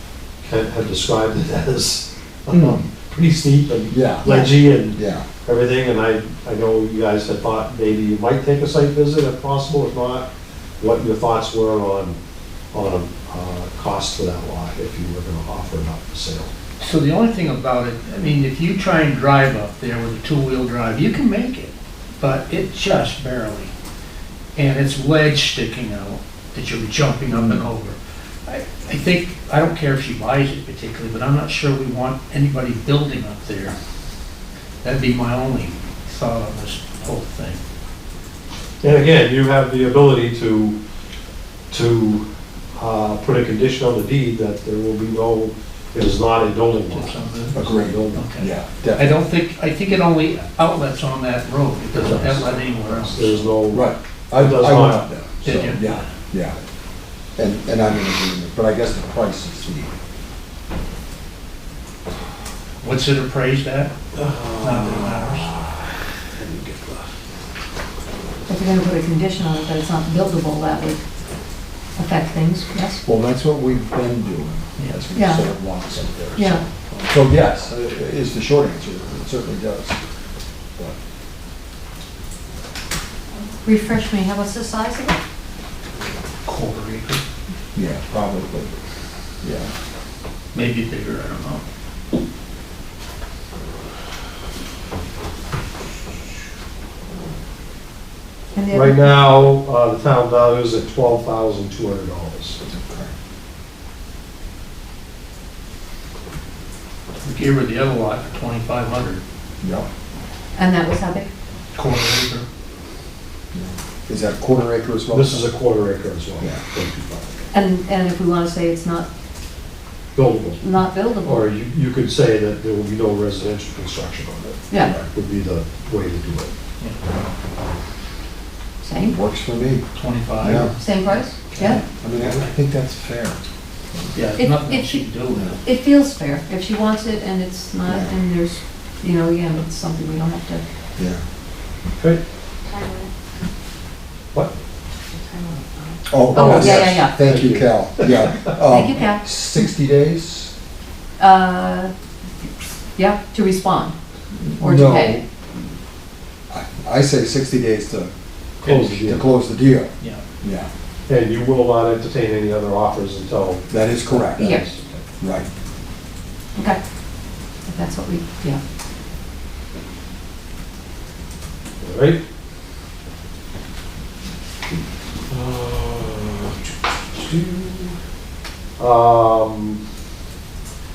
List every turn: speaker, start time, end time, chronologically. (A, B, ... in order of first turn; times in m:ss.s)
0:00.4-0:10.3 A
0:02.5-0:02.8 B
0:03.9-0:05.2 B
0:04.2-0:04.5 C
0:10.8-0:12.2 A
0:12.7-0:16.5 A
0:16.8-0:23.7 D
0:24.6-0:33.8 D
0:27.3-0:27.6 B
0:34.8-0:37.6 D
0:38.8-0:40.8 A
0:41.7-0:42.2 A
0:42.8-0:48.2 A
0:46.9-0:47.6 D
0:47.5-0:49.2 B
0:48.1-0:53.5 D
0:51.9-0:55.0 A
0:53.7-0:56.6 B
0:55.4-0:56.1 D
0:57.4-0:59.9 B
1:02.8-1:04.0 D
1:04.1-1:07.1 A
1:04.6-1:05.5 D
1:08.5-1:11.0 C
1:12.0-1:13.0 C
1:13.0-1:20.0 B
1:15.1-1:15.4 C
1:16.4-1:16.6 C
1:23.6-1:25.2 C
1:26.4-1:27.2 D
1:27.7-1:28.7 B
1:29.4-1:29.7 B
1:30.5-1:31.6 D
1:38.5-1:39.1 C
1:38.7-1:42.6 A
1:42.6-1:43.1 B
1:47.2-1:49.2 D
1:49.6-1:49.9 B
1:50.5-1:51.3 C
1:51.7-1:52.4 D
1:53.5-1:55.4 B
1:55.1-1:57.5 A
1:57.5-1:59.1 C
2:00.1-2:00.6 A
2:00.6-2:01.5 C
2:01.2-2:06.5 A
2:08.8-2:09.2 C
2:09.0-2:09.8 B
2:09.9-2:12.5 D
2:10.4-2:10.7 B
2:10.8-2:11.8 C
2:11.7-2:14.1 B
2:14.1-2:15.6 D
2:14.4-2:15.0 C
2:15.6-2:20.6 C
2:17.9-2:18.1 B
2:21.0-2:21.2 B
2:22.6-2:23.1 C
2:25.1-2:27.1 C
2:26.1-2:30.5 B
2:26.3-2:28.5 A
2:28.7-2:29.2 C
2:31.2-2:31.9 C
2:33.0-2:33.9 C
2:34.4-2:35.2 B
2:34.6-2:35.2 C
2:36.5-2:38.1 B
2:38.6-2:39.2 A
2:38.7-2:40.7 B
2:41.1-2:45.0 A
2:43.7-2:44.5 B
2:44.4-2:44.6 C
2:45.2-2:45.5 B
2:47.7-2:48.6 C
2:51.8-2:52.2 A
2:55.3-2:58.0 A
2:58.8-2:59.8 A